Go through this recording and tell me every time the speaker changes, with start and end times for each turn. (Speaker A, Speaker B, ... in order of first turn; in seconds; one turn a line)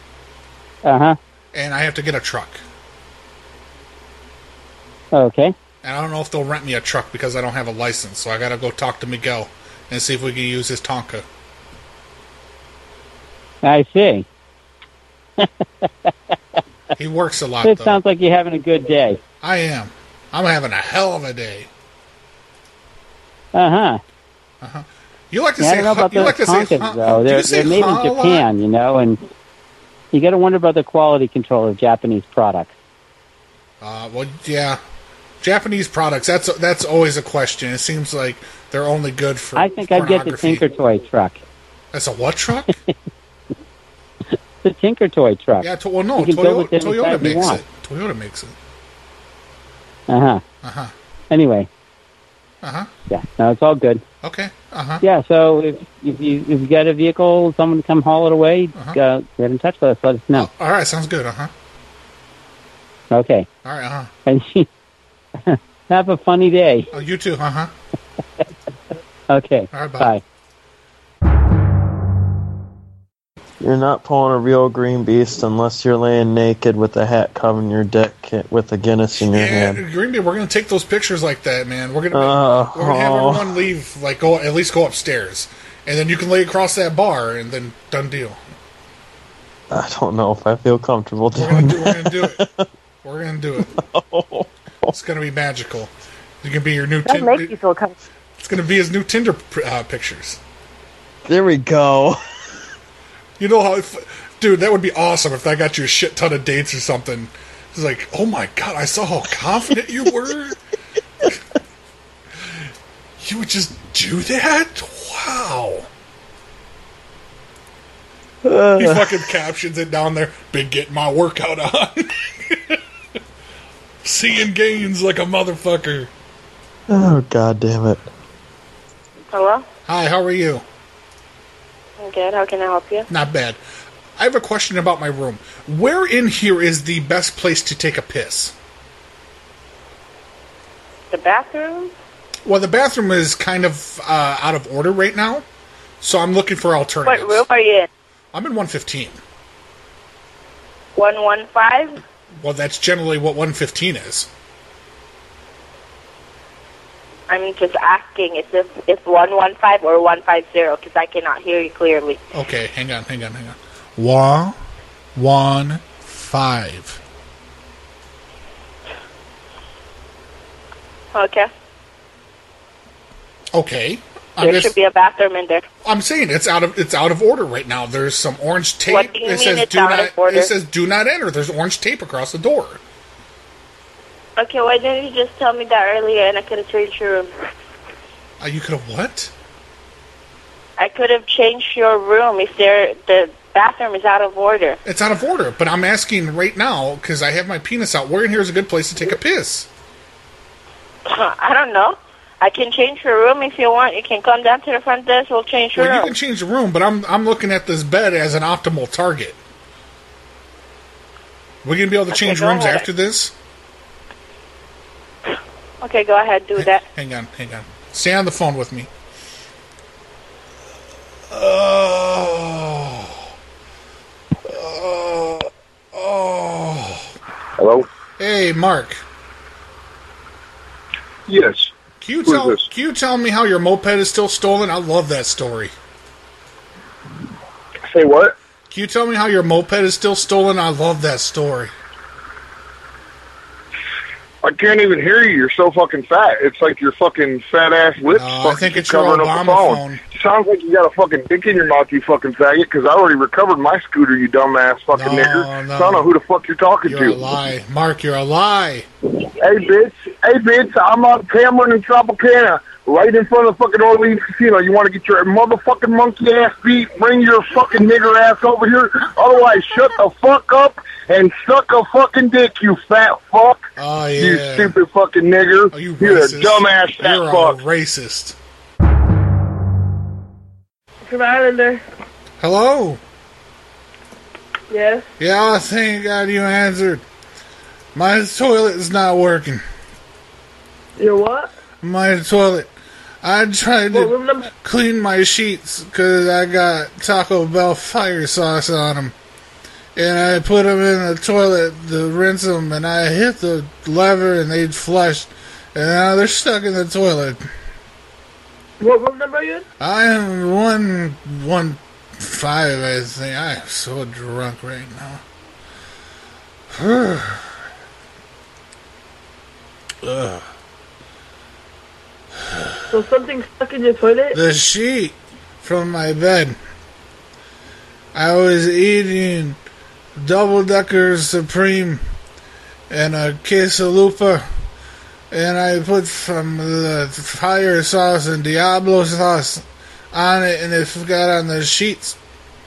Speaker A: 0.8-1.2
Speaker B: 1.5-2.6
Speaker A: 5.1-5.5
Speaker B: 5.8-11.2
Speaker A: 13.6-14.2
Speaker A: 15.4-16.6
Speaker B: 17.0-18.0
Speaker A: 17.6-19.2
Speaker B: 19.4-21.7
Speaker A: 23.5-24.0
Speaker B: 24.6-28.5
Speaker A: 25.6-29.2
Speaker A: 30.1-32.7
Speaker B: 33.8-34.8
Speaker B: 35.4-40.6
Speaker A: 39.5-41.4
Speaker B: 41.9-42.8
Speaker A: 44.6-47.6
Speaker B: 45.6-48.5
Speaker A: 50.1-50.4
Speaker B: 50.6-50.9
Speaker A: 51.3-51.7
Speaker B: 52.6-52.9
Speaker A: 53.1-54.0
Speaker B: 54.2-55.0
Speaker A: 55.0-60.5
Speaker B: 60.3-61.5
Speaker A: 63.1-63.5
Speaker B: 63.6-64.1
Speaker A: 64.2-64.7
Speaker A: 65.4-66.9
Speaker B: 66.9-67.7
Speaker A: 69.3-70.2
Speaker B: 69.7-70.1
Speaker C: 73.6-79.8
Speaker B: 79.2-88.4
Speaker C: 82.1-83.5
Speaker C: 89.7-92.6
Speaker B: 91.3-92.4
Speaker B: 93.0-93.7
Speaker C: 93.6-94.9
Speaker B: 94.9-95.9
Speaker B: 96.4-97.6
Speaker B: 98.4-100.4
Speaker C: 101.3-102.2
Speaker B: 103.4-110.6
Speaker B: 113.2-115.9
Speaker C: 118.4-119.3
Speaker B: 118.8-122.8
Speaker B: 124.0-126.1
Speaker C: 126.9-128.1
Speaker D: 129.3-129.7
Speaker B: 129.8-130.6
Speaker D: 132.0-133.1
Speaker B: 133.1-133.6
Speaker B: 134.2-138.5
Speaker D: 141.1-141.9
Speaker B: 142.4-145.4
Speaker B: 146.0-147.4
Speaker D: 147.0-147.9
Speaker B: 148.3-149.2
Speaker D: 150.9-152.0
Speaker B: 152.3-154.3
Speaker D: 157.3-162.2
Speaker B: 162.3-164.6
Speaker B: 165.1-167.0
Speaker D: 171.1-171.5
Speaker B: 173.5-174.7
Speaker D: 174.4-175.6
Speaker B: 175.8-182.8
Speaker D: 178.9-180.5
Speaker D: 184.4-187.3
Speaker B: 188.4-189.3
Speaker D: 190.8-194.8
Speaker B: 194.8-199.7
Speaker D: 201.1-206.1
Speaker B: 205.7-209.4
Speaker B: 211.6-213.3
Speaker D: 212.1-212.8
Speaker D: 215.8-216.8
Speaker B: 216.6-218.9
Speaker B: 221.3-223.3
Speaker B: 224.4-227.1
Speaker E: 227.6-227.9
Speaker B: 228.2-229.0
Speaker E: 231.3-231.7
Speaker B: 232.0-235.7
Speaker E: 232.2-232.7
Speaker E: 237.9-238.3
Speaker B: 238.7-241.7
Speaker E: 244.4-257.2
Speaker B: 248.1-250.0
Speaker B: 254.9-256.1
Speaker B: 256.8-258.9
Speaker E: 259.2-273.6
Speaker B: 273.8-274.8
Speaker E: 274.2-277.6
Speaker B: 275.7-278.4
Speaker F: 281.0-281.8
Speaker B: 282.4-283.0
Speaker F: 284.7-285.1
Speaker B: 285.2-287.0
Speaker B: 287.9-289.6
Speaker F: 291.0-291.5
Speaker B: 291.8-292.7
Speaker B: 293.2-299.1
Speaker F: 293.9-294.5
Speaker B: 299.9-307.4
Speaker F: 308.8-309.6
Speaker B: 309.8-315.2
Speaker B: 316.7-317.5
Speaker B: 320.0-320.5
Speaker B: 322.4-322.9
Speaker F: 322.9-324.4
Speaker B: 324.3-326.6
Speaker B: 328.1-329.6
Speaker B: 330.1-332.0
Speaker B: 332.9-334.4
Speaker B: 335.3-342.2